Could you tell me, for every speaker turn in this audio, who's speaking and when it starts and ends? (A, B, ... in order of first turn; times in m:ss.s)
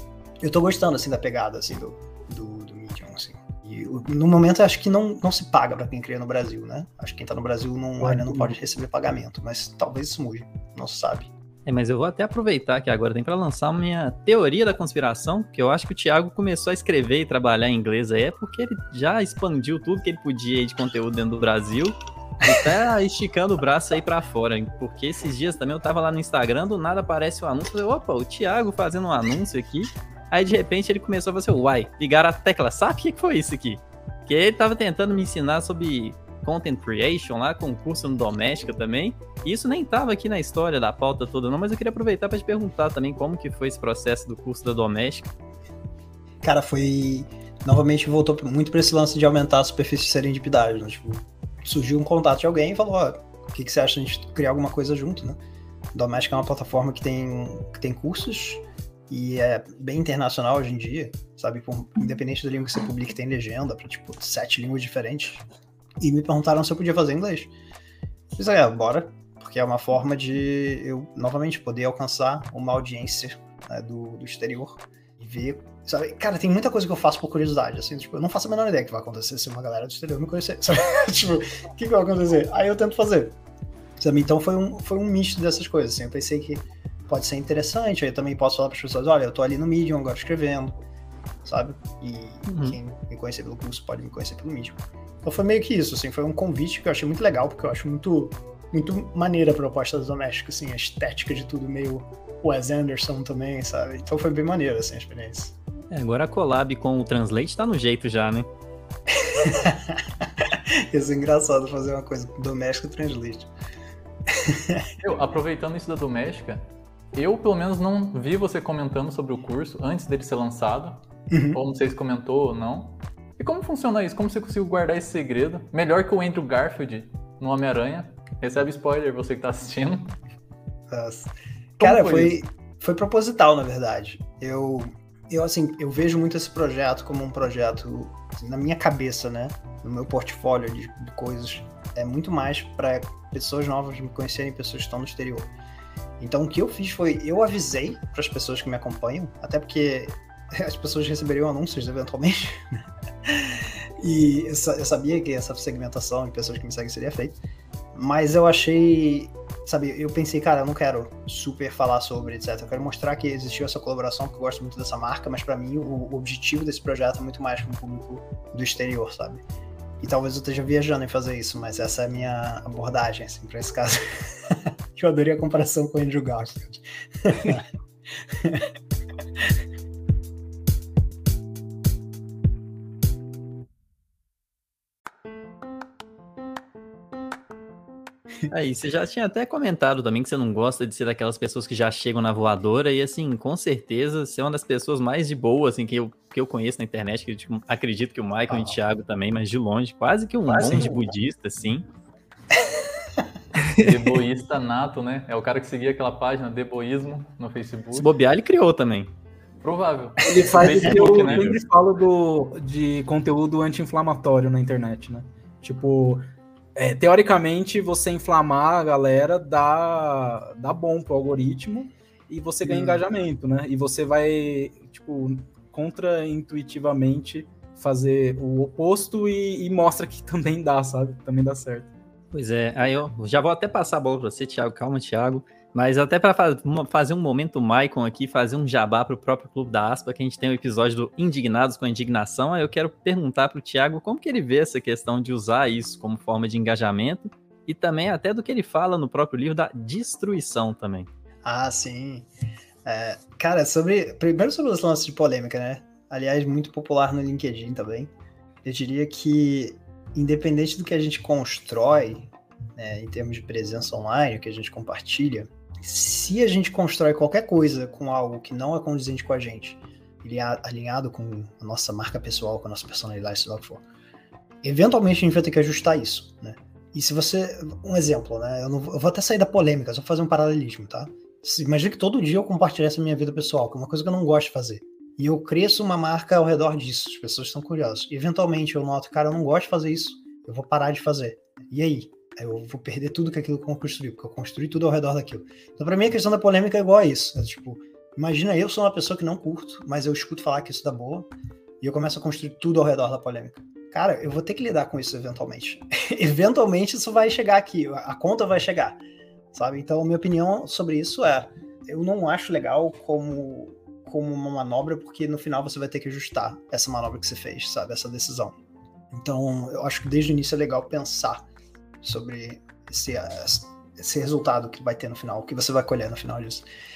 0:00.4-0:11.3 A
0:11.7-0:45.3 B
0:46.4-0:55.4 A
0:55.9-1:05.5 A
1:06.0-1:07.5 A
1:08.4-1:23.4 A
1:24.0-1:30.8 A
1:31.4-1:45.5 A
1:32.5-1:32.8 B
1:45.9-1:48.5 B
1:49.1-1:53.5 A
1:54.3-1:54.9 A
1:55.0-2:10.2 C
2:01.3-2:01.6 A
2:10.9-2:25.5 A
2:11.8-2:12.4 C
2:26.2-2:37.4 A
2:37.9-2:49.4 A
2:50.0-2:58.7 A
3:08.5-3:21.9 B
3:18.5-3:18.8 A
3:20.5-3:21.0 A
3:23.7-3:28.1 C
3:27.9-3:29.1 B
3:29.6-3:31.6 C
3:30.2-3:51.9 D
3:30.8-3:31.4 A
3:42.6-3:43.0 A
3:52.3-4:11.1 B
4:11.4-4:12.3 A
4:12.8-4:18.1 A
4:18.6-4:33.8 A
4:34.6-5:01.3 A
5:01.8-5:09.0 A
5:09.5-5:18.6 A
5:19.1-5:21.5 A
5:22.0-5:26.7 A